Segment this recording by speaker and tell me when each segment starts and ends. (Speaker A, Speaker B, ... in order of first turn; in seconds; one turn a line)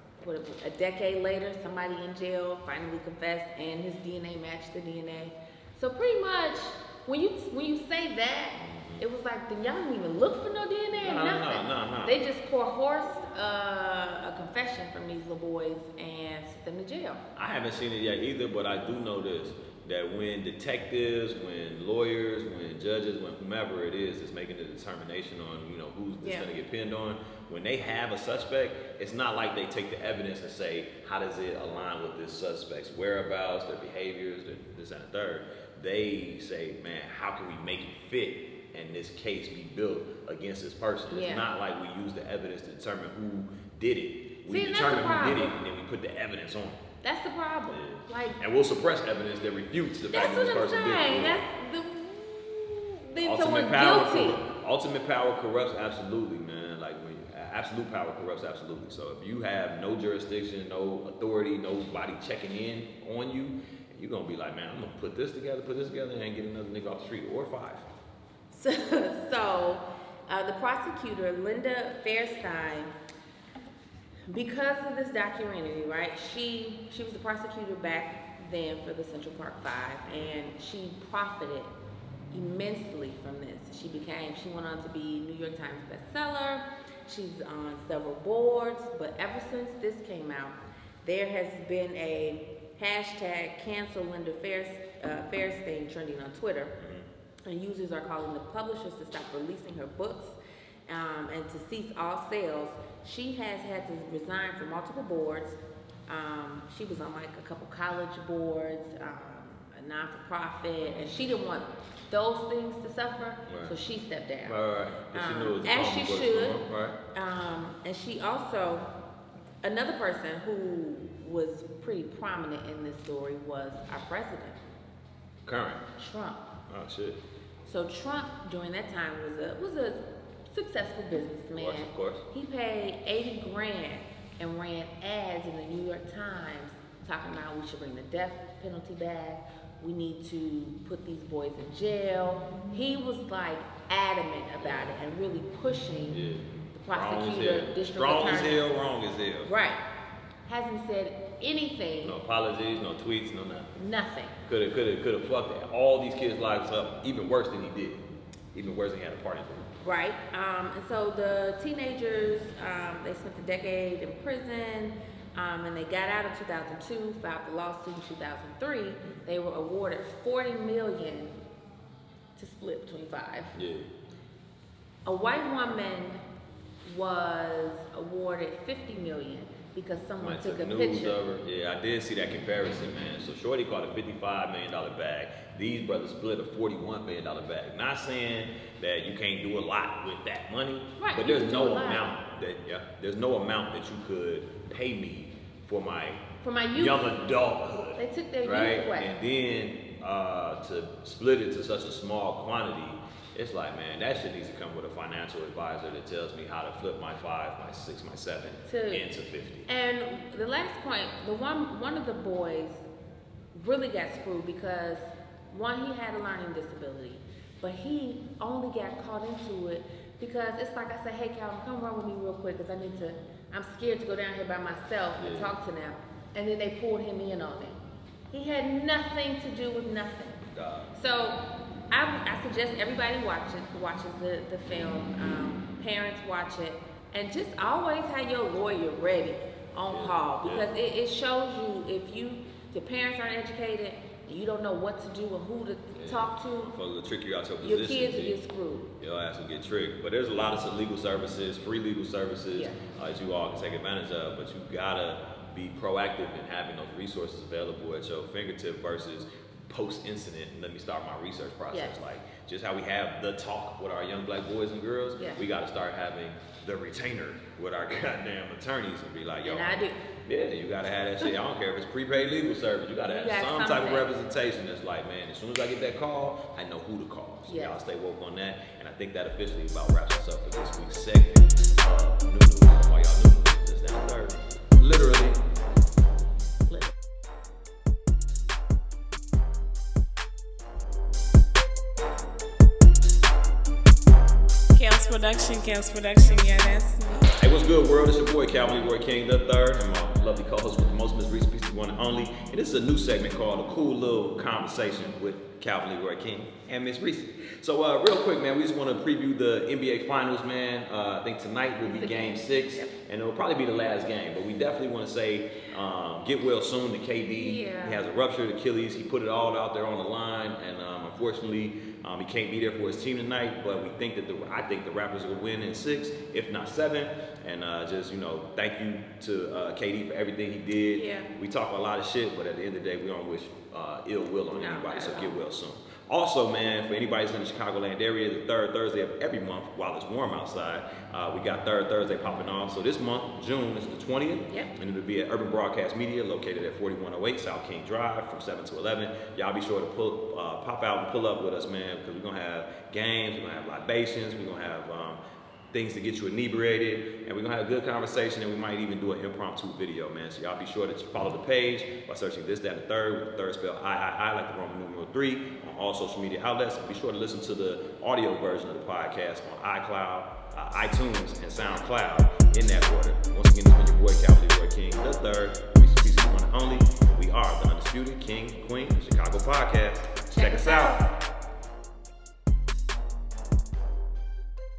Speaker A: 0.2-17.2
Speaker B: 8.6-9.0
Speaker B: 11.0-12.2
Speaker B: 17.4-46.8
Speaker A: 26.2-26.5
Speaker A: 41.1-41.5
Speaker A: 44.5-45.6
Speaker A: 47.0-48.4
Speaker B: 47.7-51.4
Speaker A: 50.1-54.4
Speaker B: 53.2-67.9
Speaker A: 68.5-72.9
Speaker A: 74.3-81.7
Speaker B: 80.1-80.3
Speaker A: 82.3-96.7
Speaker B: 96.8-97.1
Speaker A: 97.5-100.4
Speaker A: 100.9-114.6
Speaker B: 110.9-111.3
Speaker B: 113.5-113.7
Speaker B: 114.5-117.0
Speaker A: 115.1-118.9
Speaker A: 119.6-124.6
Speaker B: 125.5-125.8
Speaker A: 126.0-126.5
Speaker B: 126.7-127.2
Speaker A: 127.7-146.2
Speaker B: 131.6-132.2
Speaker B: 144.6-145.0
Speaker B: 146.1-149.5
Speaker A: 146.7-148.7
Speaker A: 149.4-149.8
Speaker A: 150.5-152.2
Speaker B: 152.0-153.7
Speaker A: 153.8-154.4
Speaker B: 154.4-159.7
Speaker A: 159.8-171.3
Speaker A: 172.4-173.6
Speaker B: 173.5-173.9
Speaker A: 175.1-176.2
Speaker A: 176.8-181.2
Speaker B: 180.2-209.7
Speaker A: 191.0-192.1
Speaker A: 196.4-197.2
Speaker A: 198.0-199.1
Speaker A: 208.7-209.0
Speaker A: 209.7-212.8
Speaker A: 213.5-227.8
Speaker B: 225.2-225.5
Speaker A: 228.3-231.4
Speaker B: 230.5-230.9
Speaker A: 231.9-246.7
Speaker B: 239.9-240.7
Speaker B: 245.9-248.4
Speaker A: 247.6-248.9
Speaker B: 249.0-285.4
Speaker A: 261.7-262.0
Speaker A: 269.4-270.0
Speaker A: 273.1-274.1
Speaker A: 277.5-277.8
Speaker C: 294.8-297.4
Speaker B: 297.4-355.2
Speaker A: 311.9-312.9
Speaker A: 317.4-318.0
Speaker A: 330.9-331.3
Speaker A: 334.5-335.3
Speaker B: 355.7-381.0
Speaker A: 380.3-381.1